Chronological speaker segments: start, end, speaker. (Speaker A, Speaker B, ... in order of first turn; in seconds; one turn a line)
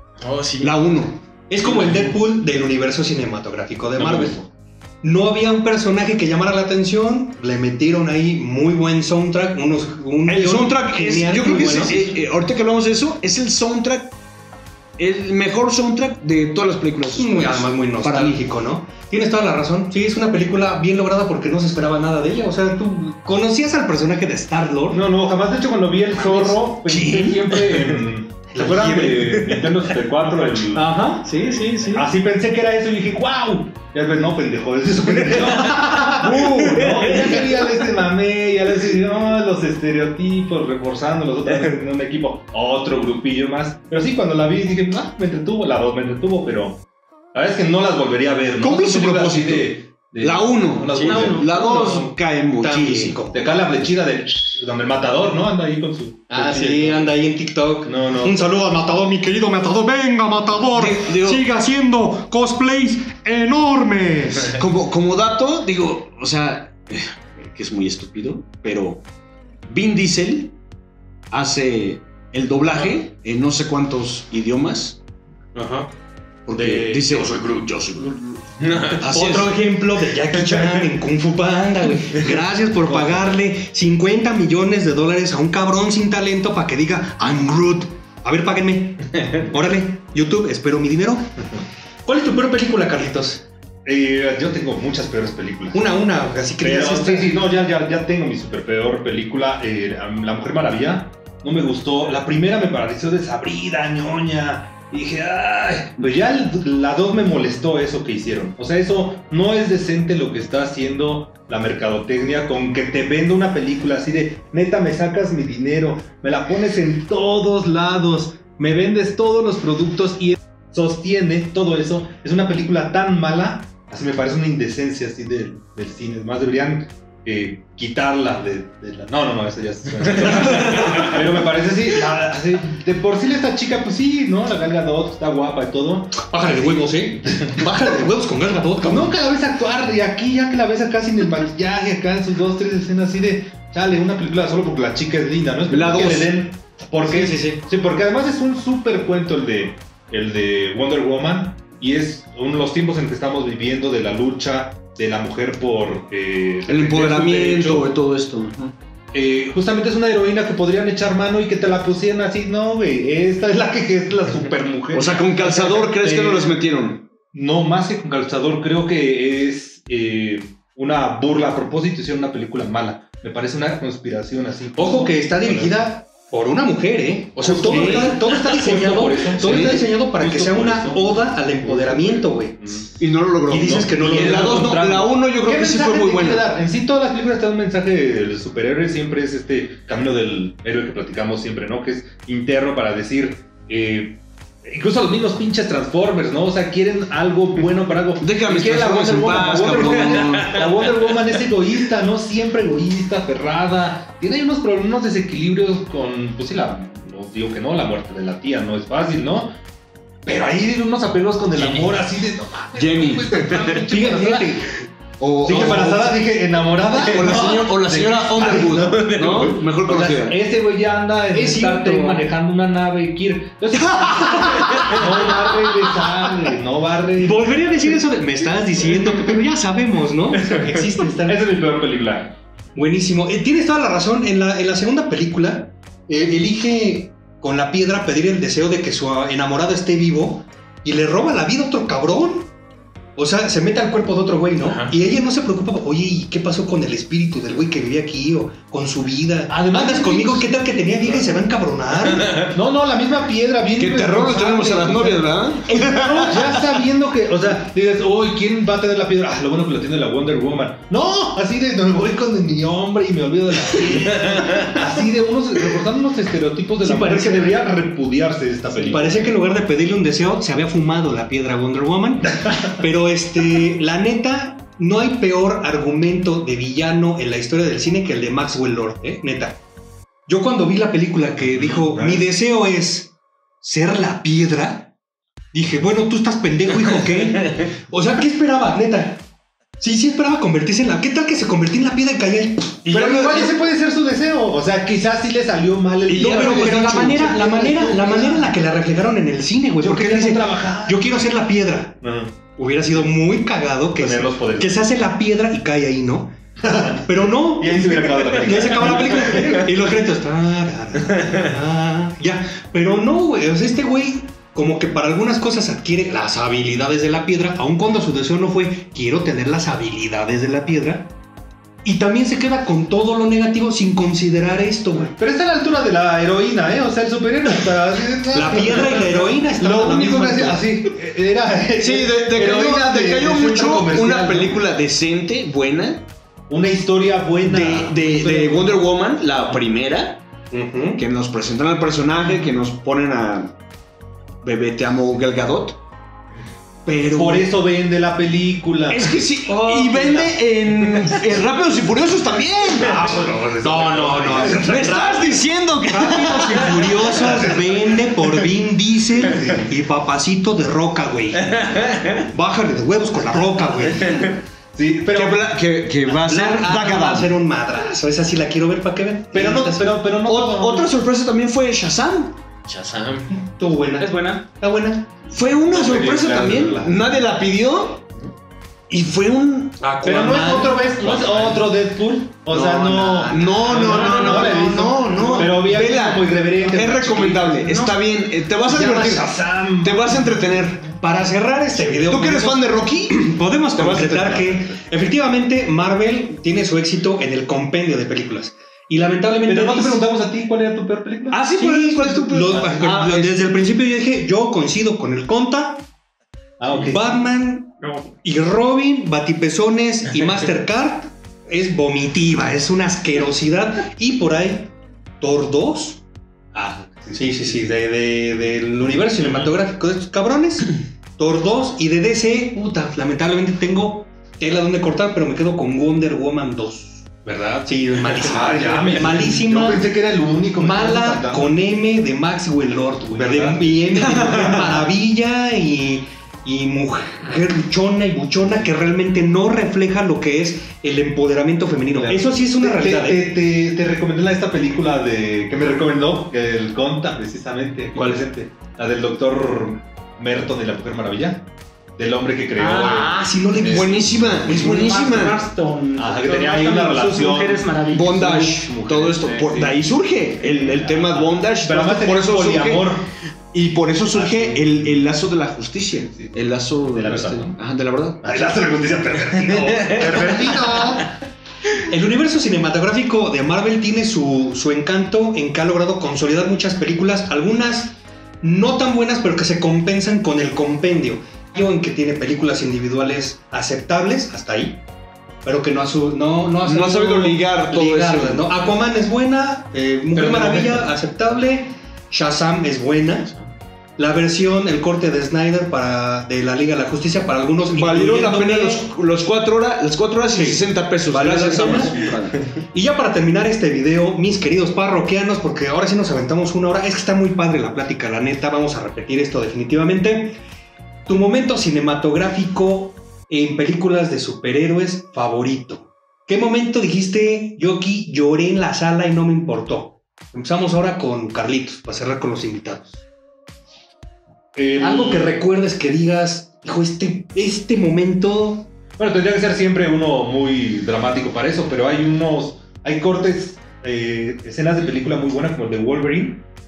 Speaker A: 0.2-0.8
Speaker B: 0.6-1.2
Speaker C: 1.5-4.4
Speaker D: 4.0-4.5
Speaker C: 5.0-12.0
Speaker B: 10.3-14.2
Speaker B: 15.0-18.4
Speaker C: 17.1-25.0
Speaker D: 24.9-31.0
Speaker C: 26.2-27.4
Speaker B: 26.9-27.4
Speaker C: 28.6-29.4
Speaker B: 28.9-29.2
Speaker C: 30.7-32.0
Speaker D: 31.9-51.5
Speaker A: 36.2-37.5
Speaker B: 36.5-37.1
Speaker B: 48.6-53.2
Speaker A: 50.9-51.4
Speaker E: 51.0-52.0
Speaker C: 51.5-53.5
Speaker D: 53.3-57.0
Speaker C: 56.3-64.6
Speaker D: 57.9-58.4
Speaker B: 60.8-61.4
Speaker B: 64.5-69.0
Speaker B: 69.7-70.6
Speaker B: 71.3-75.0
Speaker D: 75.6-75.8
Speaker B: 76.5-78.2
Speaker C: 76.5-77.0
Speaker D: 76.5-77.3
Speaker A: 78.6-79.0
Speaker C: 79.0-91.5
Speaker B: 79.0-79.5
Speaker C: 92.0-93.5
Speaker D: 93.8-95.9
Speaker C: 95.7-97.4
Speaker D: 96.6-137.6
Speaker A: 130.7-131.0
Speaker C: 136.2-139.2
Speaker D: 138.9-157.9
Speaker B: 145.7-146.3
Speaker C: 147.1-147.6
Speaker B: 156.7-158.7
Speaker D: 159.1-166.6
Speaker B: 164.9-167.1
Speaker D: 167.2-175.8
Speaker C: 174.8-182.8
Speaker D: 177.4-183.0
Speaker B: 177.7-178.1
Speaker B: 179.4-179.8
Speaker B: 183.0-186.4
Speaker C: 183.5-184.6
Speaker D: 183.5-209.5
Speaker B: 198.2-200.9
Speaker D: 210.2-214.6
Speaker A: 211.6-211.9
Speaker B: 212.8-213.8
Speaker C: 213.9-214.7
Speaker B: 215.2-216.1
Speaker D: 215.4-227.6
Speaker C: 215.5-216.2
Speaker B: 217.1-220.4
Speaker A: 219.2-219.6
Speaker C: 221.3-222.3
Speaker C: 224.4-225.1
Speaker B: 224.7-225.0
Speaker C: 227.2-231.5
Speaker D: 231.2-232.4
Speaker C: 232.8-242.5
Speaker C: 243.2-252.4
Speaker A: 244.6-244.9
Speaker D: 249.5-251.5
Speaker D: 252.3-269.3
Speaker B: 253.8-256.6
Speaker C: 255.7-256.1
Speaker C: 266.8-267.7
Speaker C: 268.9-279.6
Speaker D: 272.4-272.7
Speaker C: 280.3-284.9
Speaker D: 281.4-282.3
Speaker C: 285.5-289.2
Speaker C: 289.8-293.5
Speaker D: 292.9-298.5
Speaker B: 296.1-297.8
Speaker C: 296.2-302.0
Speaker D: 299.8-301.1
Speaker D: 302.0-302.4
Speaker C: 302.6-321.1
Speaker D: 304.0-304.8
Speaker D: 306.6-307.0
Speaker D: 307.6-309.7
Speaker C: 321.8-325.1
Speaker D: 325.1-334.6
Speaker C: 328.3-330.6
Speaker B: 331.8-336.1
Speaker D: 336.5-338.6
Speaker B: 337.4-340.2
Speaker C: 340.5-341.0
Speaker B: 341.0-343.6
Speaker B: 344.4-345.8
Speaker B: 346.9-347.5
Speaker D: 347.0-349.2
Speaker B: 348.9-353.3
Speaker C: 349.5-350.4
Speaker D: 352.8-355.3
Speaker C: 353.2-364.4
Speaker B: 354.4-357.6
Speaker D: 356.5-357.6
Speaker D: 359.3-359.7
Speaker A: 361.5-362.2
Speaker D: 364.7-365.5
Speaker B: 365.1-367.3
Speaker C: 366.2-369.9
Speaker D: 369.3-370.9
Speaker B: 370.2-372.4
Speaker A: 372.7-373.3
Speaker C: 373.3-375.1
Speaker E: 374.0-374.4
Speaker B: 375.3-378.0
Speaker D: 375.7-377.2
Speaker B: 378.9-379.9
Speaker C: 379.8-381.6
Speaker D: 380.0-387.9
Speaker C: 382.5-385.5
Speaker B: 383.3-390.9
Speaker E: 385.1-385.5
Speaker D: 388.6-390.9
Speaker C: 391.0-400.1
Speaker B: 391.9-393.2
Speaker B: 393.7-394.5
Speaker D: 394.5-394.8
Speaker D: 399.5-401.5
Speaker B: 401.3-403.5
Speaker C: 401.5-405.9
Speaker D: 402.4-402.9
Speaker D: 406.6-407.1
Speaker C: 406.8-416.0
Speaker D: 416.5-417.7
Speaker C: 417.1-427.1
Speaker D: 427.2-431.4
Speaker C: 427.7-429.9
Speaker C: 430.6-443.2
Speaker D: 433.1-434.0
Speaker B: 434.0-434.9
Speaker D: 441.9-454.7
Speaker E: 452.6-453.1
Speaker C: 452.6-454.9
Speaker B: 453.7-455.4
Speaker E: 454.5-458.3
Speaker D: 456.0-459.8
Speaker B: 457.9-462.9
Speaker D: 460.4-463.1
Speaker B: 463.5-468.2
Speaker D: 464.1-465.0
Speaker D: 466.9-467.6
Speaker D: 468.2-471.1
Speaker C: 471.8-484.8
Speaker C: 485.4-493.3
Speaker B: 486.6-488.5
Speaker D: 490.1-490.9
Speaker C: 494.0-498.9
Speaker B: 497.7-502.5
Speaker C: 500.3-502.1
Speaker C: 502.7-510.4
Speaker C: 511.1-523.0
Speaker D: 524.5-525.4
Speaker C: 524.8-528.7
Speaker D: 529.0-536.5